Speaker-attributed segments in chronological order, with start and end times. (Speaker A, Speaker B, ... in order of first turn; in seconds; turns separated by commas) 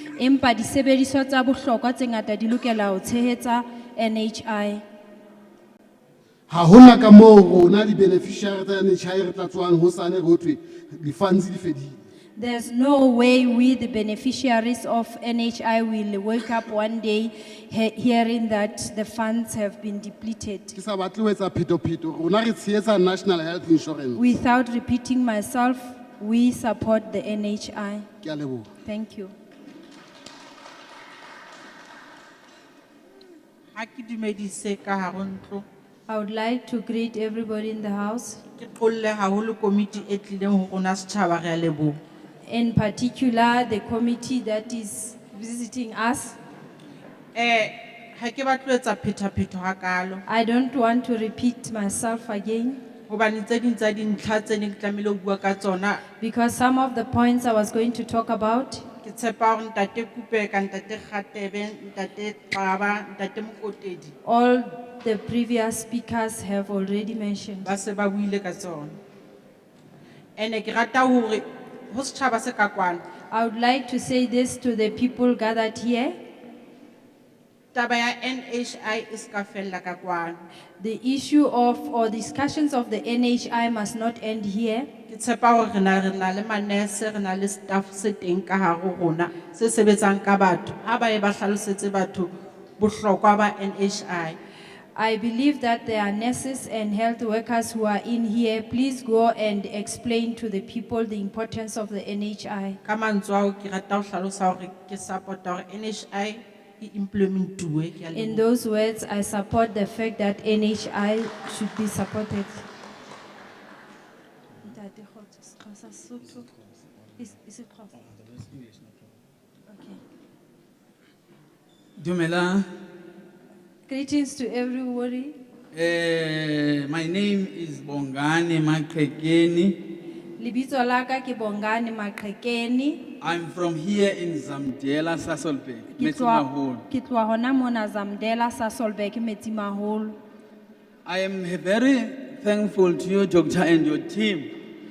Speaker A: 0.2-4.8, Speaker B: 6.5-12.0, Speaker A: 12.4-20.8, Speaker B: 20.8-24.3, Speaker A: 24.2-28.1, Speaker B: 28.2-28.7, Speaker A: 28.8-29.3, Speaker C: 33.8-35.6, Speaker A: 36.1-38.4, Speaker C: 38.6-42.0, Speaker A: 42.5-46.4, Speaker C: 47.4-50.2, Speaker A: 50.3-52.8, Speaker C: 53.1-56.0, Speaker A: 56.2-58.9, Speaker C: 59.0-64.1, Speaker A: 64.2-67.7, Speaker C: 67.6-69.0, Speaker C: 70.4-73.0, Speaker A: 73.3-76.2, Speaker C: 77.7-80.4, Speaker A: 80.8-84.9, Speaker C: 85.1-94.4, Speaker A: 95.0-102.8, Speaker C: 102.8-108.4, Speaker A: 108.1-112.7, Speaker A: 114.6-116.5, Speaker D: 116.5-117.2, Speaker A: 117.2-118.0, Speaker D: 118.0-119.2, Speaker A: 119.7-120.0, Speaker D: 122.0-122.7, Speaker A: 123.9-125.3, Speaker D: 125.7-129.8, Speaker A: 130.4-133.0, Speaker D: 133.2-136.8, Speaker A: 135.9-140.2, Speaker D: 141.1-144.5